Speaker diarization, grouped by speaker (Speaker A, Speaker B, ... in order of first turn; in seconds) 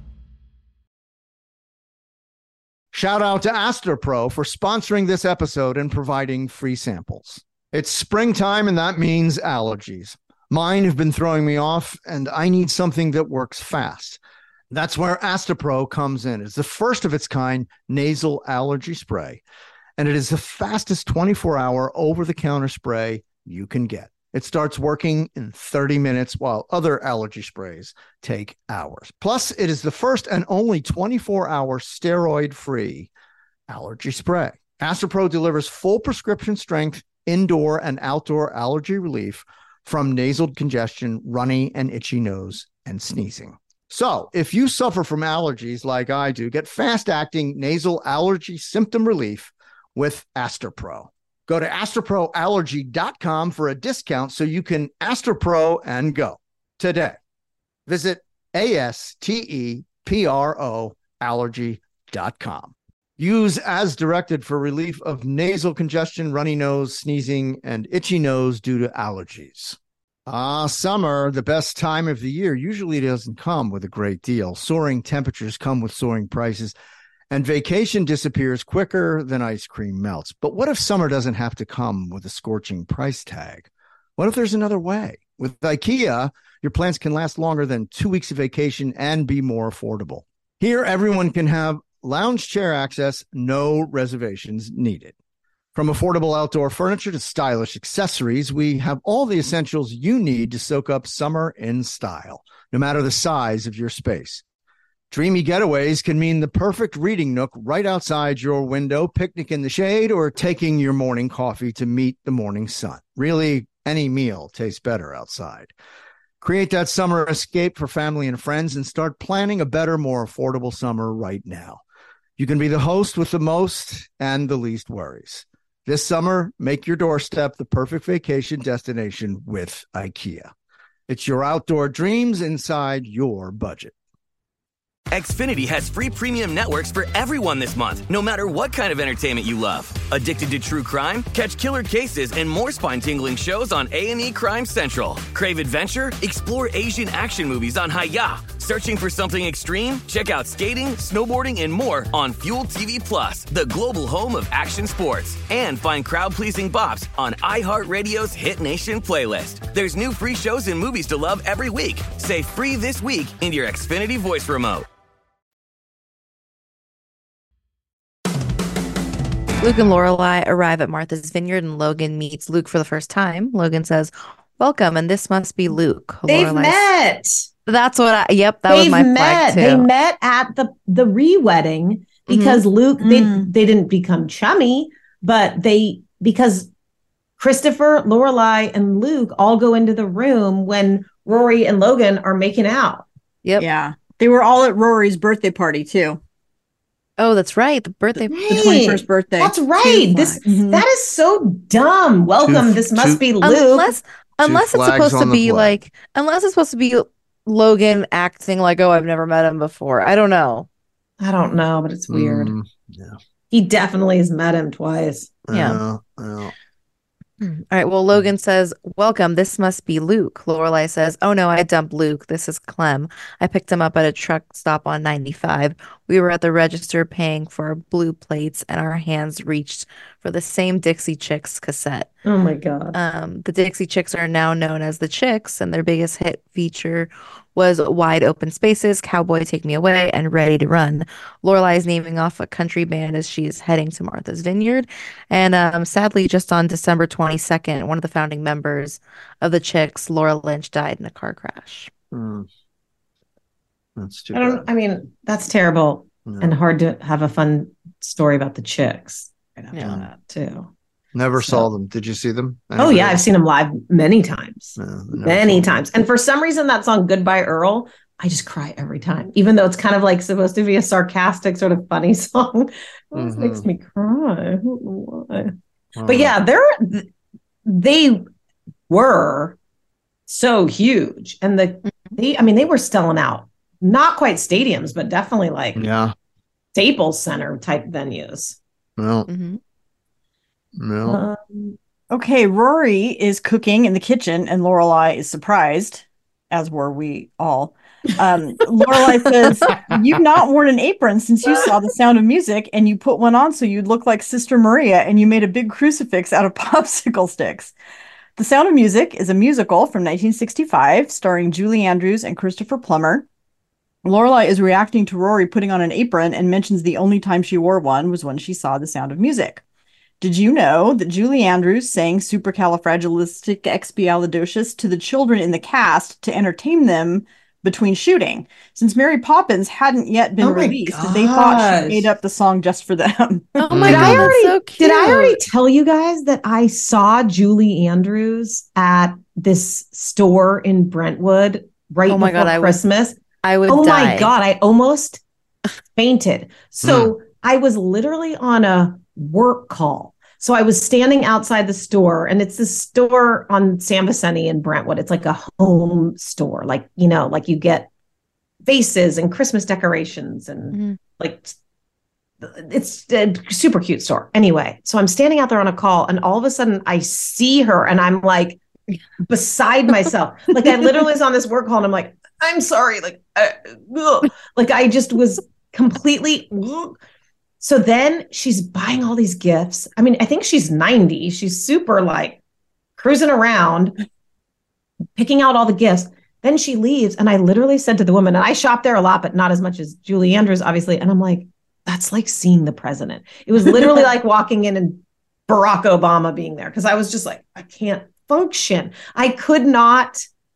Speaker A: 2.9-14.2, 14.7-19.4, 20.0-33.1, 33.7-57.2, 57.9-76.8, 77.3-95.1, 95.7-104.4, 105.1-115.7, 116.4-121.8, 122.4-130.5, 131.1-133.9, 202.4-203.2, 204.4-205.8, 212.1-213.2, 215.5-216.5, 252.1-252.5, 254.0-254.6, 256.2-256.5, 259.8-260.1, 261.1-263.2, 264.8-265.8, 273.1-273.7, 275.9-276.4, 285.8-286.1, 289.0-289.3, 290.8-291.2, 333.7-334.3, 346.8-347.1
Speaker B: 135.1-164.8
Speaker C: 169.6-176.8, 177.7-179.8, 182.2-182.6, 197.2-198.4, 203.4-210.7, 215.5-215.8, 217.4-232.1, 232.9-251.9, 289.3-289.6, 333.6-335.4, 342.1-342.8, 343.4-344.3
Speaker D: 176.3-177.4, 178.7-186.7, 187.4-193.0, 198.3-203.9, 211.2-212.5, 213.5-215.4, 232.2-233.0, 254.3-260.7, 261.4-261.7, 262.8-275.5, 276.0-277.1, 277.7-278.2, 278.9-279.6, 280.3-285.8, 286.7-288.6, 291.1-291.8, 330.4-332.1, 333.7-345.2, 345.9-357.9, 358.6-361.5, 362.4-368.6, 369.2-376.9, 377.6-382.4, 383.0-383.9, 385.2-400.2
Speaker E: 183.0-183.5, 193.6-196.2, 198.5-200.8, 292.1-307.7, 308.4-313.2, 314.0-319.6, 320.2-333.7